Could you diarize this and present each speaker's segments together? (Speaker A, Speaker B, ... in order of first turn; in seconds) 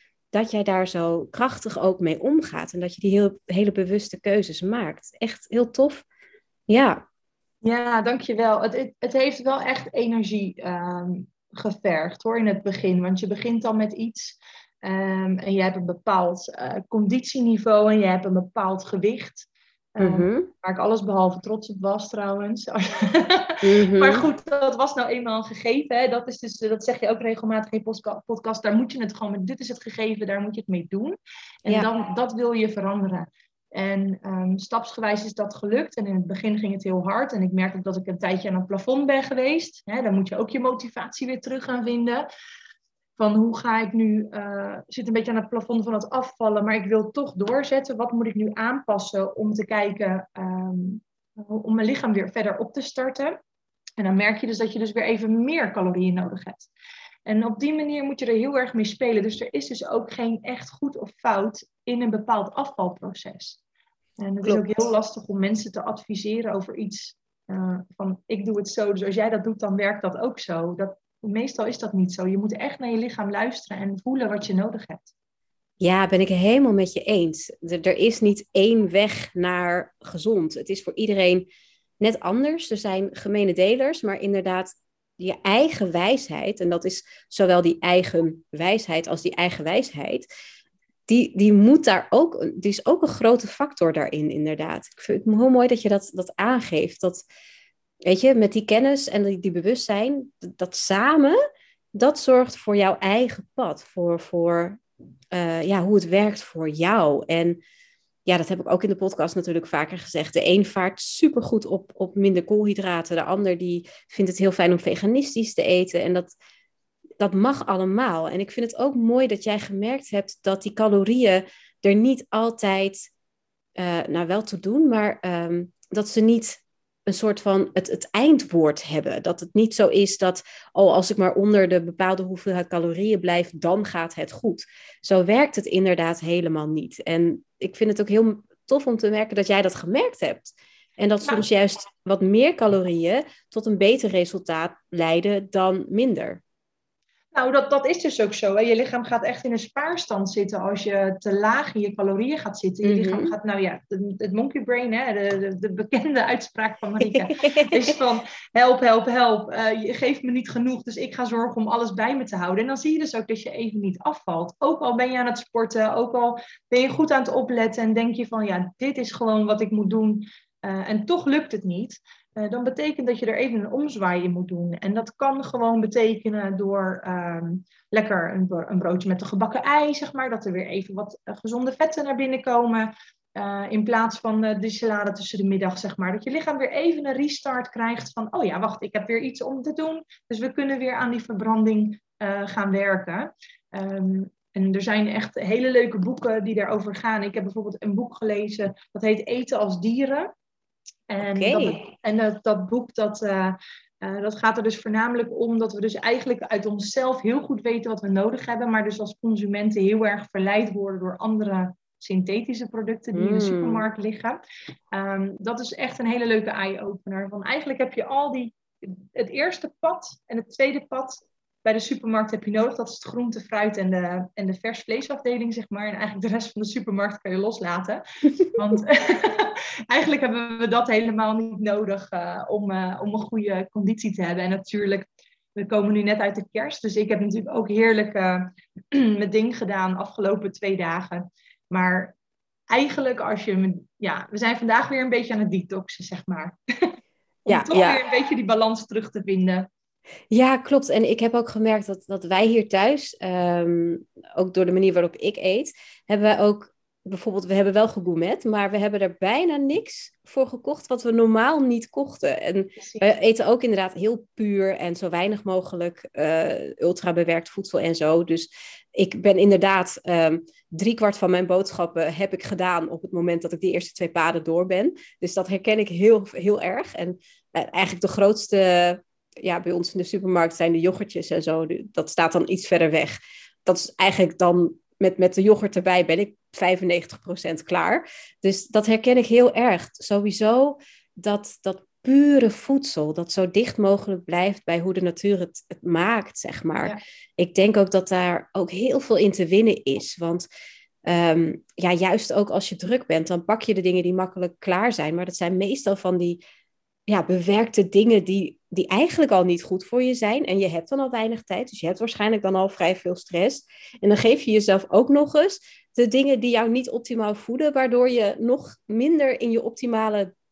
Speaker A: 0.3-6.0, 6.7-7.0, 20.0-20.5, 23.6-24.2, 64.4-64.8, 75.8-81.5, 82.0-90.3, 91.1-97.3, 98.0-101.4, 101.9-104.8, 105.3-107.6, 108.3-116.3, 117.2-123.1, 123.8-146.4, 152.8-153.4, 157.1-157.9, 201.2-201.8, 213.1-213.9, 247.5-248.0, 250.3-300.5, 301.1-306.4, 307.1-320.3
Speaker B: 7.6-42.3, 43.2-53.4, 54.0-56.7, 57.3-63.6, 64.2-75.1, 147.3-200.3, 201.1-214.4, 214.9-242.2, 242.7-246.9, 247.5-249.7, 262.8-263.1